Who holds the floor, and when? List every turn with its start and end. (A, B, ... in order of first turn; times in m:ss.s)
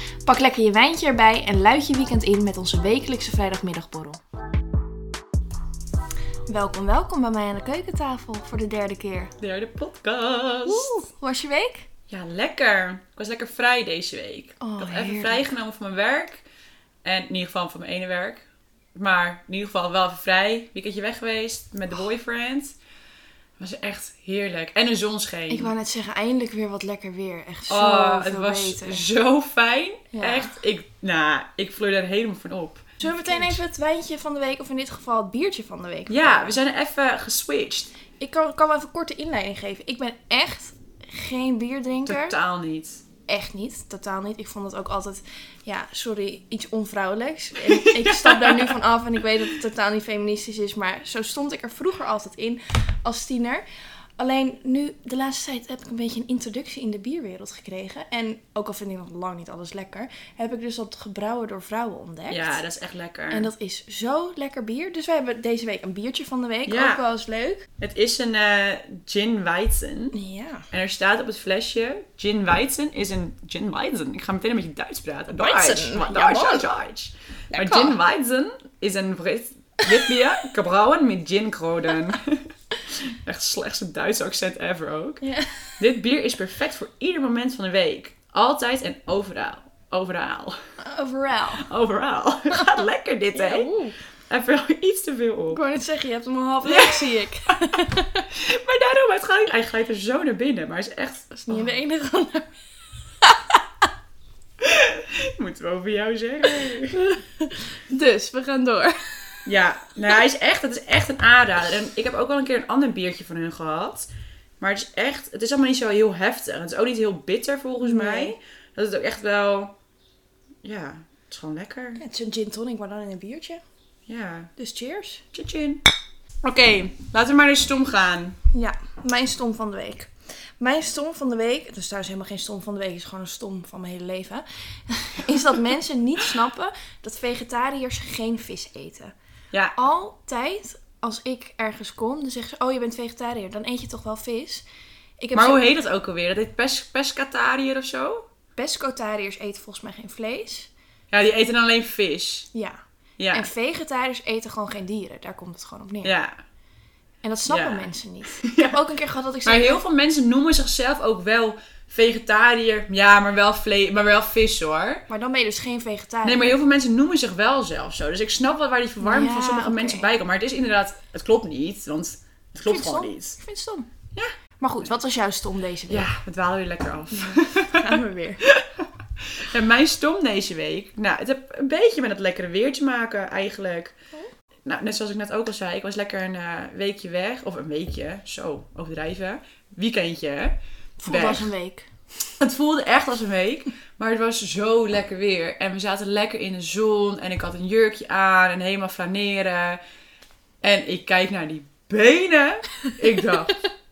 0:00.2-0:04.2 A
0:06.5-0:09.3 A
0:09.4-0:10.9 B
0:10.6-0:11.8 A
0:12.1-0:16.4 B
0:14.6-0:15.5 A
0:17.0-0:22.8 B
0:23.6-0:25.7 B
0:25.5-0:29.0 A
0:27.7-0:33.6 B
0:30.1-0:30.5 A
0:33.0-0:36.6 A
0:36.1-0:37.9 B
0:38.2-0:42.4 A
0:42.0-0:43.0 B
0:43.3-0:53.6 A
0:47.7-0:48.8 B
0:54.2-1:02.6 A
1:02.3-1:03.5 B
1:03.3-1:07.6 A
1:06.7-1:07.0 B
1:07.8-1:10.1 B
1:10.1-1:10.6 A
1:10.7-1:25.2 B
1:15.4-1:16.7 A
1:17.5-1:18.0 A
1:25.2-1:25.8 A
1:25.8-1:30.6 B
1:30.8-1:31.7 A
1:31.6-1:33.7 B
1:33.3-1:34.0 A
1:34.3-1:35.6 B
1:35.5-1:38.2 A
1:36.6-1:37.5 B
1:38.3-1:41.7 B
1:41.3-1:42.5 A
1:43.2-1:43.6 A
1:44.6-1:46.9 B
1:46.9-1:49.4 A
1:49.4-1:54.1 B
1:54.6-1:59.7 B
1:57.8-1:58.4 A
2:00.6-2:02.0 B
2:02.0-2:03.6 A
2:04.1-2:04.5 B
2:04.6-2:05.2 A
2:05.3-2:05.8 B
2:06.4-2:08.4 B
2:08.5-2:19.1 A
2:19.7-2:24.6 A
2:25.2-2:25.7 A
2:25.3-2:28.3 B
2:28.6-2:30.7 A
2:31.1-2:32.5 B
2:33.2-2:33.5 B
2:33.3-2:36.2 A
2:36.0-2:36.4 B
2:37.2-2:39.8 A
2:37.5-2:38.8 B
2:39.4-2:45.0 B
2:45.1-2:46.6 A
2:46.2-2:53.4 B
2:49.0-2:50.1 A
2:52.6-2:53.9 A
2:54.1-2:54.9 B
2:54.6-2:56.1 A
2:55.9-3:03.9 B
2:57.1-2:58.4 A
3:04.6-3:10.6 B
3:11.0-3:11.9 A
3:11.1-3:11.5 B
3:12.4-3:19.8 B
3:20.6-3:23.6 B